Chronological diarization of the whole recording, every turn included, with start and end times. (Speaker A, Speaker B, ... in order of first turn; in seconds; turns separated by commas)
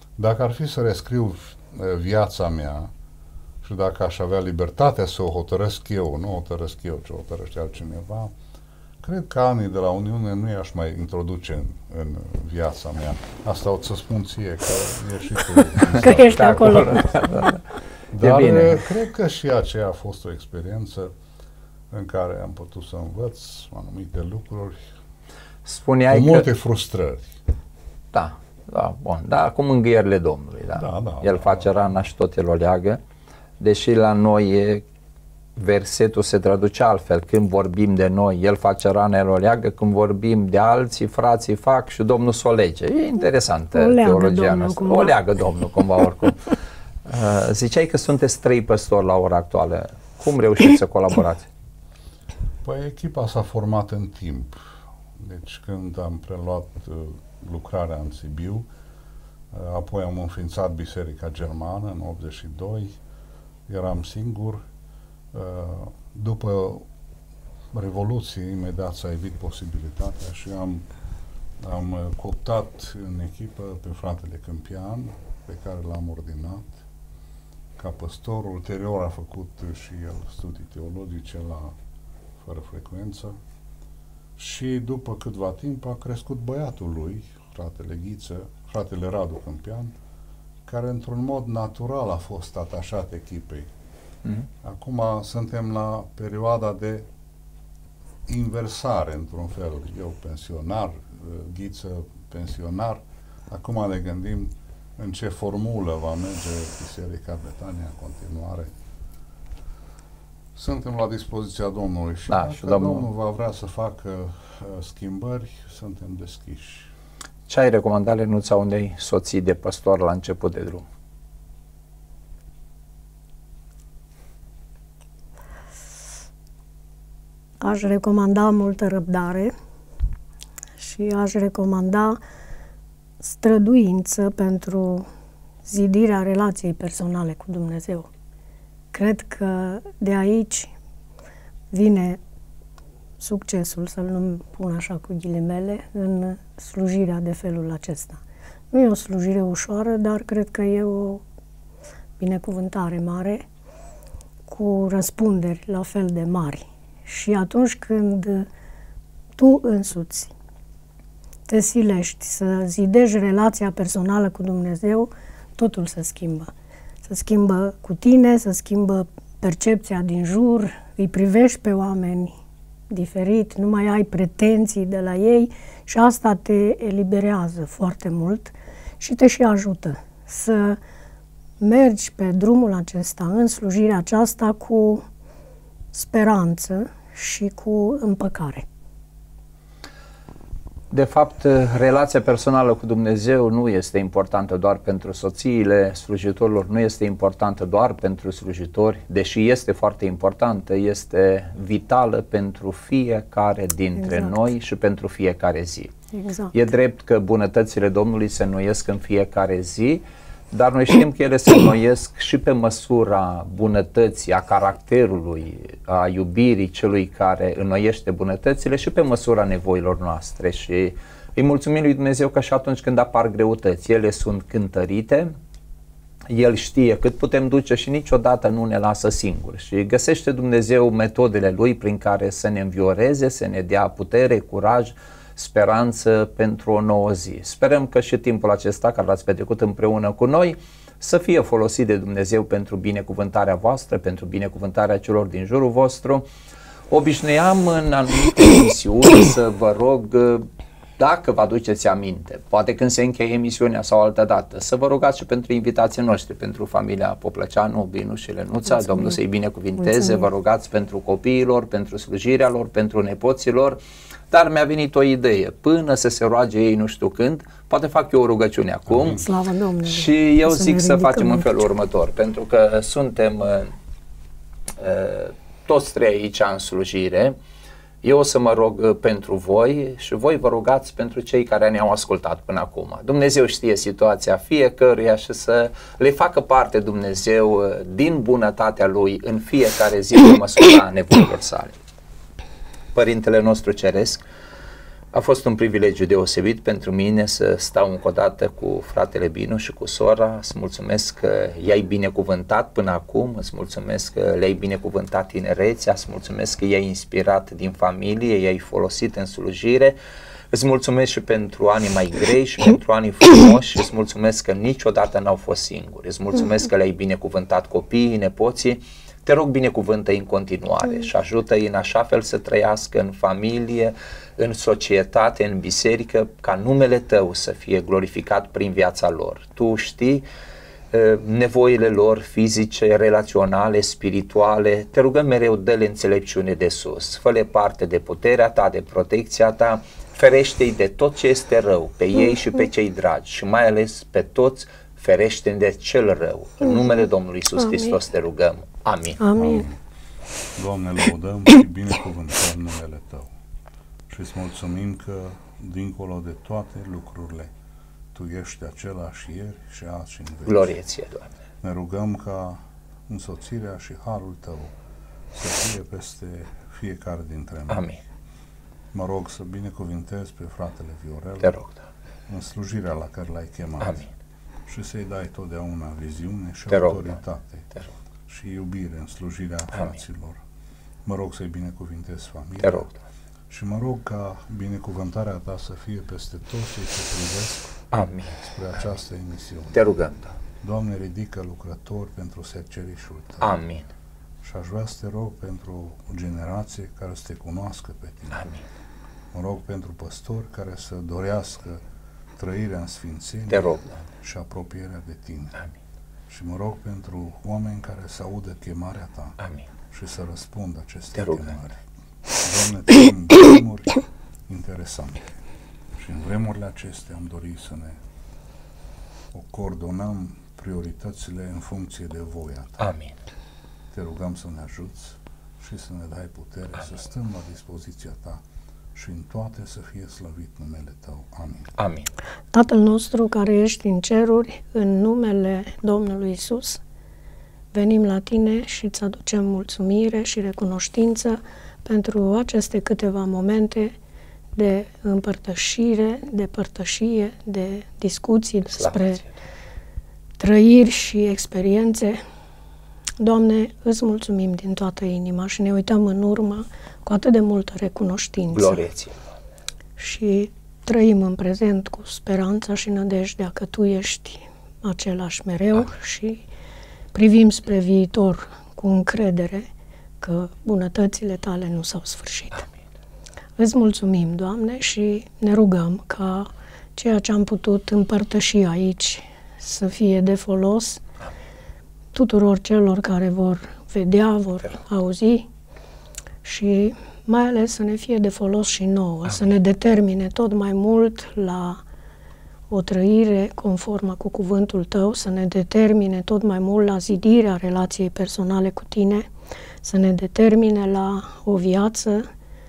Speaker A: 0.2-2.9, Speaker A: 3.6-8.3, Speaker A: 9.0-17.0, Speaker B: 16.0-17.1, Speaker C: 16.1-17.6, Speaker A: 18.1-21.1, Speaker C: 18.2-18.8, Speaker A: 21.9-24.9, Speaker C: 25.7-26.5, Speaker A: 26.1-27.4, Speaker C: 28.1-33.0, Speaker A: 30.8-31.7, Speaker C: 33.6-34.8, Speaker C: 35.6-51.5, Speaker B: 43.7-45.1, Speaker A: 52.6-58.6, Speaker A: 59.5-63.0, Speaker A: 63.7-64.7, Speaker A: 65.3-66.9, Speaker A: 67.7-70.9, Speaker A: 71.6-76.8, Speaker A: 77.8-81.7, Speaker A: 82.4-83.3, Speaker A: 84.4-90.0, Speaker A: 90.7-93.7, Speaker A: 94.6-97.1, Speaker A: 98.3-108.7, Speaker A: 110.5-116.9, Speaker C: 112.3-113.0, Speaker C: 117.5-120.8, Speaker B: 127.6-129.5, Speaker B: 130.8-132.2, Speaker B: 133.2-135.1, Speaker B: 135.7-138.1, Speaker B: 138.9-140.7, Speaker B: 141.7-142.2, Speaker B: 143.2-148.2, Speaker B: 148.7-151.2, Speaker B: 152.2-153.4, Speaker B: 154.5-158.5, Speaker B: 159.4-160.3, Speaker B: 161.5-166.5, Speaker B: 167.1-172.3, Speaker B: 172.9-180.8, Speaker B: 181.6-185.0, Speaker B: 185.9-188.7, Speaker C: 190.9-205.9, Speaker B: 204.0-204.5, Speaker B: 206.1-206.6, Speaker C: 206.5-225.3, Speaker C: 226.3-246.3, Speaker C: 246.9-250.5, Speaker C: 251.0-263.8, Speaker B: 258.7-259.2, Speaker B: 259.8-260.3, Speaker C: 264.3-269.2, Speaker A: 268.9-269.2, Speaker B: 269.1-271.7, Speaker C: 269.9-273.7, Speaker C: 274.8-277.4, Speaker C: 278.0-291.8, Speaker C: 292.9-294.2, Speaker C: 295.1-310.0, Speaker C: 310.5-330.2, Speaker C: 330.9-349.2, Speaker B: 349.2-349.6, Speaker A: 349.4-349.8, Speaker A: 350.6-353.3, Speaker A: 354.1-357.5, Speaker A: 358.1-360.7, Speaker C: 360.5-361.3, Speaker A: 361.6-364.7, Speaker A: 365.3-367.9, Speaker C: 367.7-368.0, Speaker A: 368.9-371.6, Speaker A: 372.3-374.1, Speaker A: 374.7-377.7, Speaker C: 376.7-377.2, Speaker A: 378.3-380.4, Speaker A: 381.1-382.9, Speaker C: 382.6-382.9, Speaker A: 383.5-387.8, Speaker C: 387.9-388.4, Speaker A: 388.3-393.6, Speaker C: 389.7-390.1, Speaker C: 393.4-393.9, Speaker A: 394.4-398.6, Speaker A: 399.3-401.8, Speaker A: 402.4-405.7, Speaker C: 403.5-404.0, Speaker A: 406.3-411.8, Speaker A: 412.4-415.4, Speaker A: 416.0-418.0, Speaker A: 419.3-422.9, Speaker C: 422.8-423.1, Speaker A: 423.9-428.4, Speaker A: 428.9-431.8, Speaker C: 431.8-432.1, Speaker B: 432.5-436.8, Speaker B: 437.7-443.9, Speaker B: 444.6-449.2, Speaker B: 450.4-452.2, Speaker B: 453.2-458.9, Speaker C: 458.5-459.2, Speaker B: 460.0-466.4, Speaker B: 467.1-469.7, Speaker B: 470.2-472.7, Speaker B: 473.6-481.0, Speaker B: 482.1-485.5, Speaker B: 486.4-491.8, Speaker B: 492.7-499.3, Speaker B: 499.8-502.3